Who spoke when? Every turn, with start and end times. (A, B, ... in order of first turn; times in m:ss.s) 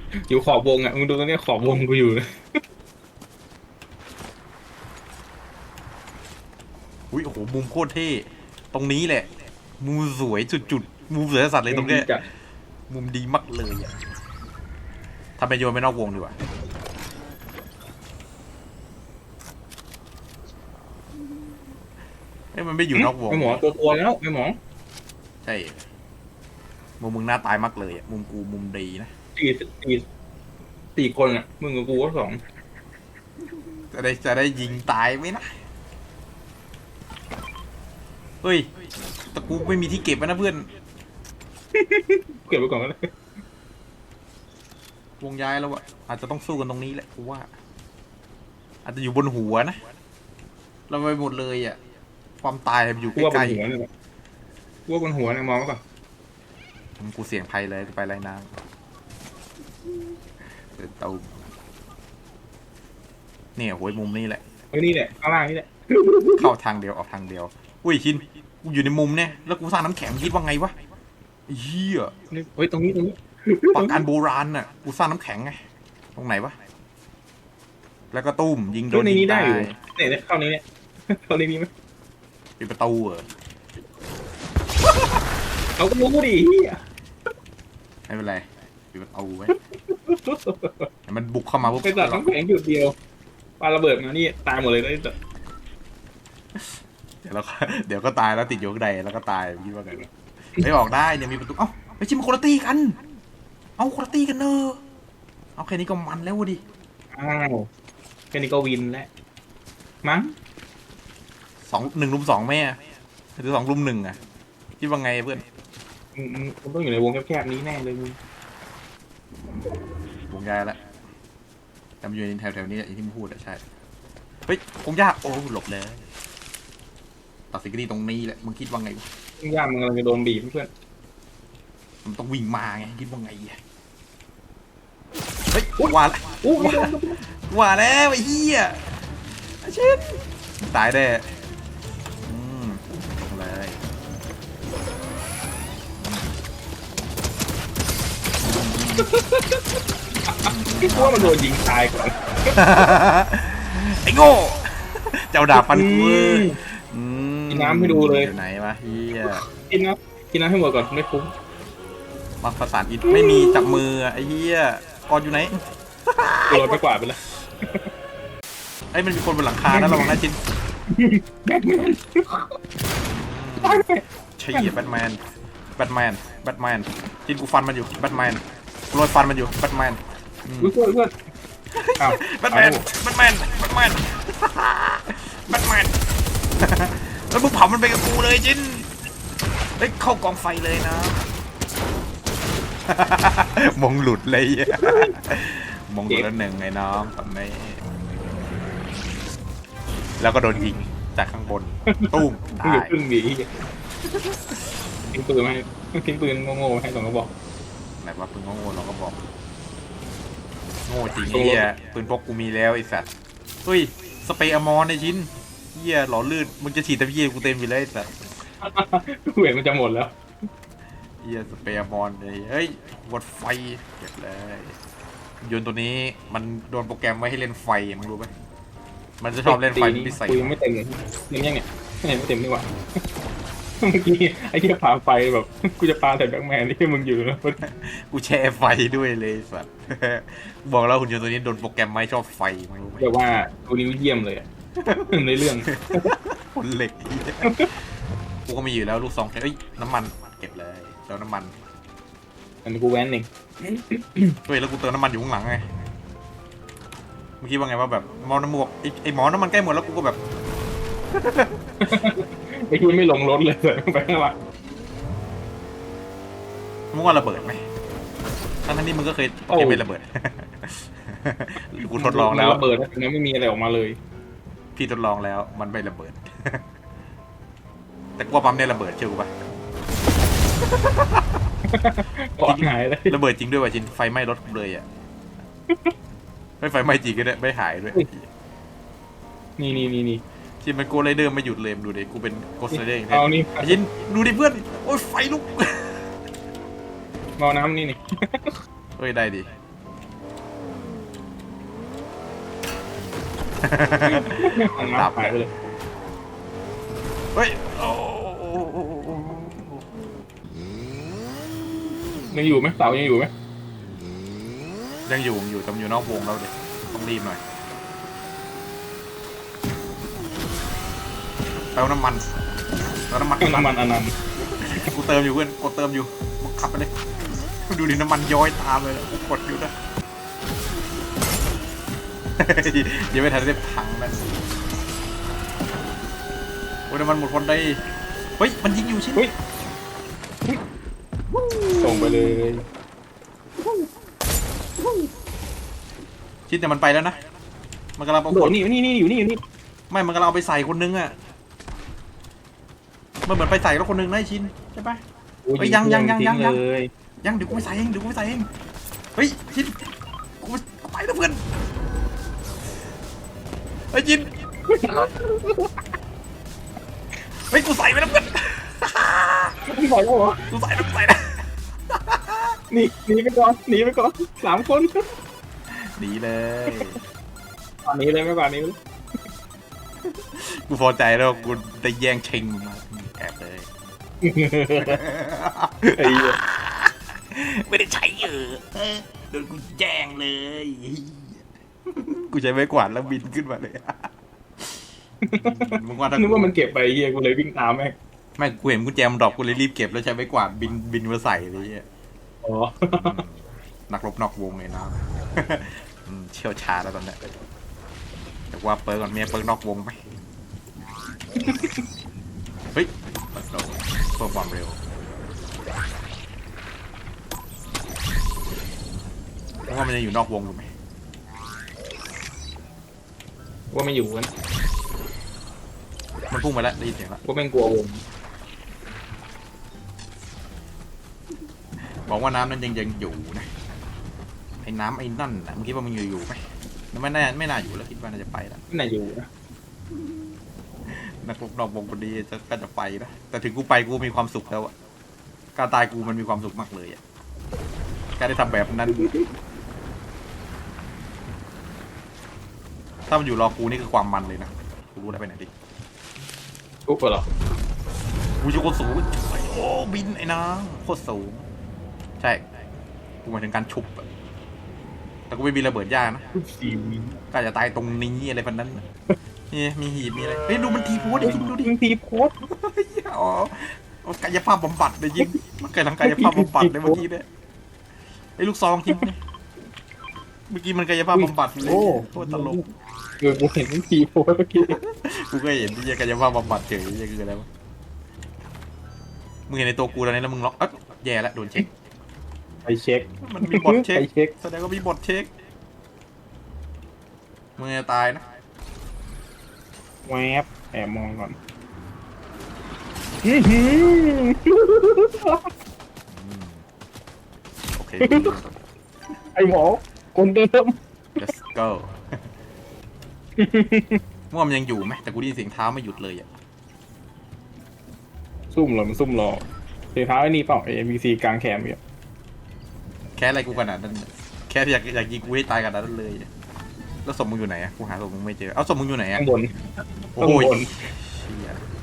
0:00.2-0:02.4 A
0:07.1-0:09.3 B
0:09.8-0:12.1 B
0:11.7-0:12.2 A
0:12.9-0:13.9 B
0:15.4-0:16.3 B
0:22.5-0:23.6 B
0:22.9-0:24.6 A
0:25.4-0:25.8 B
0:27.0-0:29.1 B
0:29.4-0:30.0 A
0:31.0-0:32.4 A
0:33.9-0:35.4 B
0:39.3-0:40.7 B
0:41.7-0:43.1 A
0:45.2-0:47.5 B
0:48.8-0:49.8 B
0:50.9-0:51.8 B
0:52.4-0:53.6 B
0:53.2-0:53.9 A
0:54.9-0:55.8 A
0:57.0-0:58.5 B
1:00.8-1:01.4 B
1:03.6-1:04.4 B
1:04.7-1:06.5 A
1:06.4-1:10.7 B
1:11.5-1:12.1 B
1:12.3-1:14.0 A
1:13.7-1:15.6 B
1:16.1-1:16.5 B
1:18.1-1:19.7 B
1:18.9-1:21.7 A
1:22.6-1:23.2 B
1:25.8-1:26.8 A
1:28.1-1:29.5 B
1:29.5-1:30.9 A
1:31.1-1:32.3 B
1:31.8-1:32.9 A
1:33.6-1:35.1 A
1:36.6-1:43.0 B
1:43.8-1:44.8 B
1:45.6-1:46.6 B
1:47.1-1:47.7 A
1:48.3-1:49.1 A
1:50.0-1:50.3 A
1:51.6-1:52.8 B
1:53.4-1:54.2 B
1:54.8-1:55.4 B
1:56.2-1:58.2 A
2:00.3-2:00.8 B
2:02.0-2:03.6 B
2:04.5-2:06.1 B
2:07.5-2:09.0 B
2:09.4-2:10.7 A
2:12.0-2:13.6 B
2:15.5-2:18.9 B
2:15.8-2:17.2 A
2:19.6-2:21.2 B
2:22.2-2:23.8 B
2:26.0-2:26.3 B
2:28.4-2:29.1 B
2:29.0-2:32.6 A
2:30.4-2:31.4 B
2:32.5-2:39.4 B
2:35.5-2:36.6 A
2:37.5-2:38.3 A
2:39.2-2:41.3 A
2:42.4-2:46.8 B
2:43.0-2:43.8 A
2:46.5-2:47.9 A
2:48.9-2:50.4 B
2:49.7-2:50.1 A
2:50.9-2:52.6 A
2:53.2-2:53.8 B
2:53.6-2:54.0 A
2:54.4-2:55.2 B
2:55.8-3:00.7 B
3:00.6-3:01.1 A
3:01.7-3:05.9 B
3:02.0-3:02.8 A
3:06.6-3:08.9 B
3:09.8-3:11.2 B
3:12.9-3:17.8 B
3:14.7-3:15.1 A
3:20.2-3:22.9 B
3:21.9-3:23.5 A
3:25.1-3:27.3 A
3:28.0-3:29.2 B
3:30.9-3:33.1 B
3:31.2-3:31.6 A
3:33.6-3:38.1 B
3:38.6-3:40.1 A
3:41.2-3:44.8 B
3:45.4-3:48.3 B
3:49.2-3:50.5 B
3:49.4-3:52.7 A
3:53.8-3:57.6 A
3:57.6-4:03.1 B
4:03.0-4:04.4 A
4:04.8-4:07.5 B
4:05.1-4:06.1 A
4:07.4-4:07.7 A
4:08.4-4:11.5 B
4:12.6-4:14.4 A
4:14.4-4:15.6 B
4:17.4-4:20.2 B
4:21.1-4:21.5 B
4:21.8-4:24.4 A
4:26.9-4:27.6 B
4:28.6-4:32.6 B
4:29.5-4:29.8 A
4:31.8-4:34.0 A
4:34.8-4:36.6 B
4:38.2-4:39.3 B
4:40.7-4:41.3 B
4:41.7-4:43.1 A
4:42.4-4:44.8 B
4:46.6-4:48.3 B
4:49.6-4:50.2 A
4:50.6-4:56.0 B
4:52.7-4:53.8 A
4:57.4-4:58.6 A
4:59.0-4:59.5 B
5:03.6-5:05.3 B
5:04.0-5:05.5 A
5:07.3-5:09.8 B
5:12.3-5:13.3 A
5:15.1-5:17.4 B
5:21.7-5:22.3 B
5:23.1-5:23.7 B
5:23.4-5:24.2 A
5:24.4-5:26.9 B
5:27.7-5:29.7 B
5:32.4-5:34.4 B
5:36.9-5:37.8 B
5:38.4-5:39.2 B
5:41.3-5:42.4 B
5:41.7-5:42.6 A
5:46.5-5:47.2 B
5:48.0-5:48.6 B
5:48.3-5:49.4 A
5:49.9-5:51.1 B
5:53.2-5:55.0 B
5:55.4-5:56.9 A
5:55.6-5:56.6 B
5:57.2-5:58.5 B
5:59.1-6:01.4 B
6:03.9-6:04.3 B
6:04.7-6:05.7 A
6:07.5-6:09.5 B
6:09.6-6:10.4 A
6:10.5-6:11.3 B
6:11.9-6:12.6 B
6:12.7-6:15.0 A
6:15.7-6:17.0 B
6:17.8-6:18.8 A
6:20.2-6:23.7 B
6:24.2-6:25.0 A
6:24.8-6:34.1 B
6:26.0-6:26.4 A
6:35.2-6:37.9 A
6:35.3-6:36.6 B
6:38.4-6:41.8 B
6:42.4-6:43.2 A
6:42.9-6:47.2 B
6:48.5-6:50.0 B
6:51.4-6:51.8 A
6:52.7-6:54.8 B
6:59.7-7:00.7 B
7:03.7-7:04.3 A
7:06.3-7:07.2 B
7:07.2-7:08.0 A
7:11.8-7:13.5 B
7:14.6-7:16.4 B
7:16.9-7:18.6 B
7:18.7-7:19.3 A
7:20.9-7:24.7 B
7:25.6-7:27.0 B
7:28.2-7:29.1 B
7:28.9-7:29.3 A
7:33.1-7:35.5 B
7:36.9-7:37.3 A
7:38.4-7:41.4 B
7:43.2-7:44.0 B
7:45.3-7:46.2 B
7:46.3-7:47.2 A
7:47.3-7:48.8 B
7:49.5-7:51.7 B
7:51.2-7:52.3 A
7:52.4-7:57.2 B
7:56.0-7:57.0 A
7:58.4-7:59.2 B
8:00.5-8:02.6 B
8:01.1-8:04.8 A
8:04.6-8:07.5 B
8:09.5-8:11.7 B
8:12.6-8:14.3 A
8:13.2-8:15.3 B
8:17.6-8:18.2 B
8:20.0-8:21.4 A
8:23.2-8:25.5 A
8:26.1-8:26.6 B
8:27.8-8:28.5 B
8:28.0-8:28.3 A
8:29.3-8:30.8 A
8:31.2-8:31.9 B
8:33.4-8:34.0 A
8:34.3-8:36.3 B
8:38.5-8:41.8 A
8:43.2-8:46.3 B
8:47.0-8:49.2 B
8:49.1-8:49.6 A
8:50.1-8:50.7 A
8:50.2-8:51.6 B